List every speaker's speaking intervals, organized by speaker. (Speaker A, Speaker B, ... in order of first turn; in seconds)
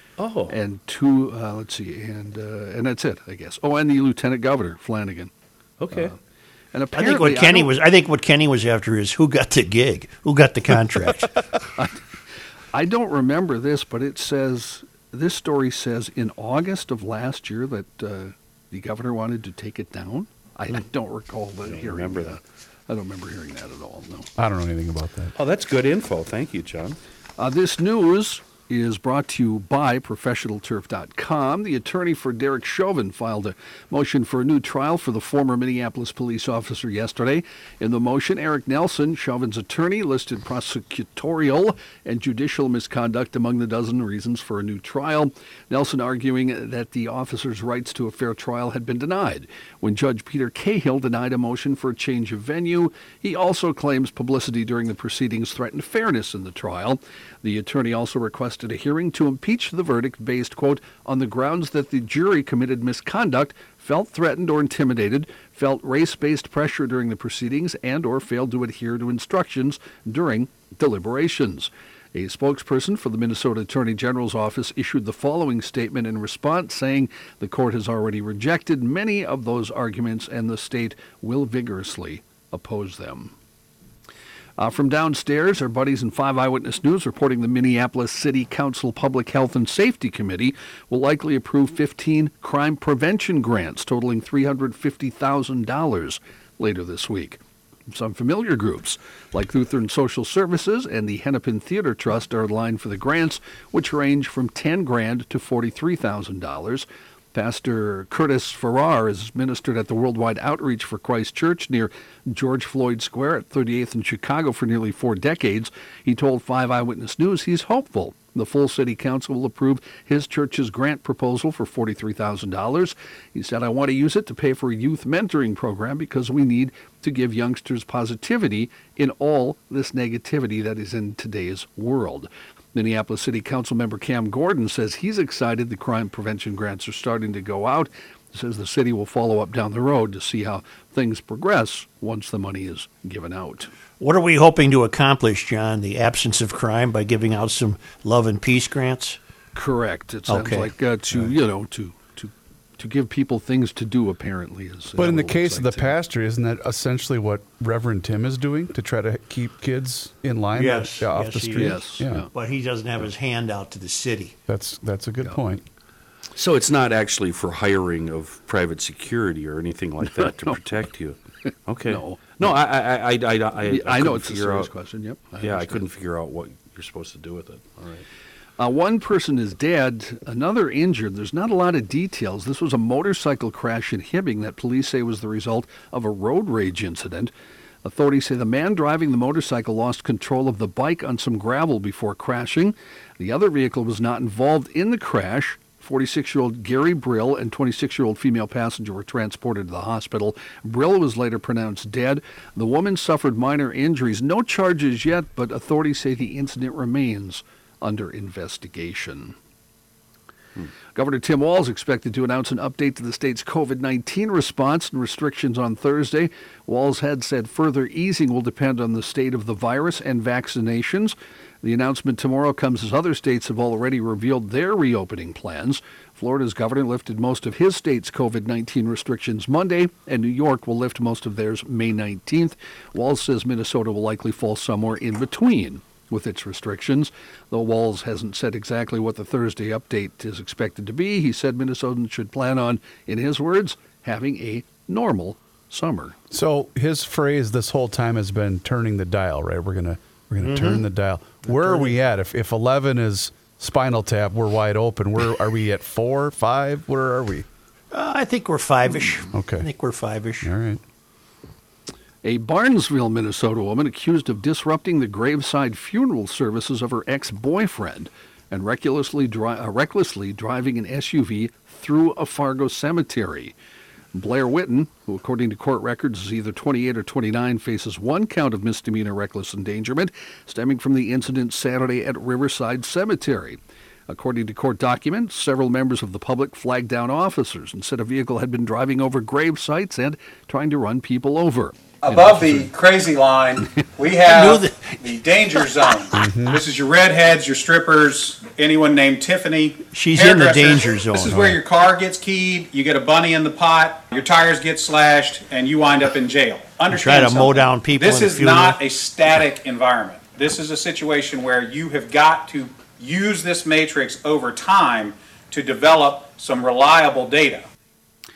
Speaker A: 0.2-0.6, 5.8-6.1, 21.6-22.4, 25.4-27.0, 166.3-174.7, 175.4-178.1
Speaker B: 0.5-5.3, 5.9-6.2, 6.7-7.7, 12.7-24.3, 27.4-83.3, 84.6-143.7, 149.6-156.0, 161.5-162.3, 170.1-170.6, 171.8-172.5, 173.6-175.8, 178.6-187.3, 187.8-209.3, 210.9-246.2, 262.2-273.6, 274.1-292.7
Speaker C: 7.0-11.3, 144.0-149.2, 150.3-150.7, 160.5-164.4, 250.4-250.8, 251.4-251.9, 257.9-260.5, 294.3-295.0, 299.9-301.6, 306.9-308.8
Speaker D: 24.4-25.3, 155.0-162.3, 164.5-165.6, 246.3-257.5, 259.3-259.7, 260.4-260.8, 296.1-296.6
Speaker E: 292.0-317.7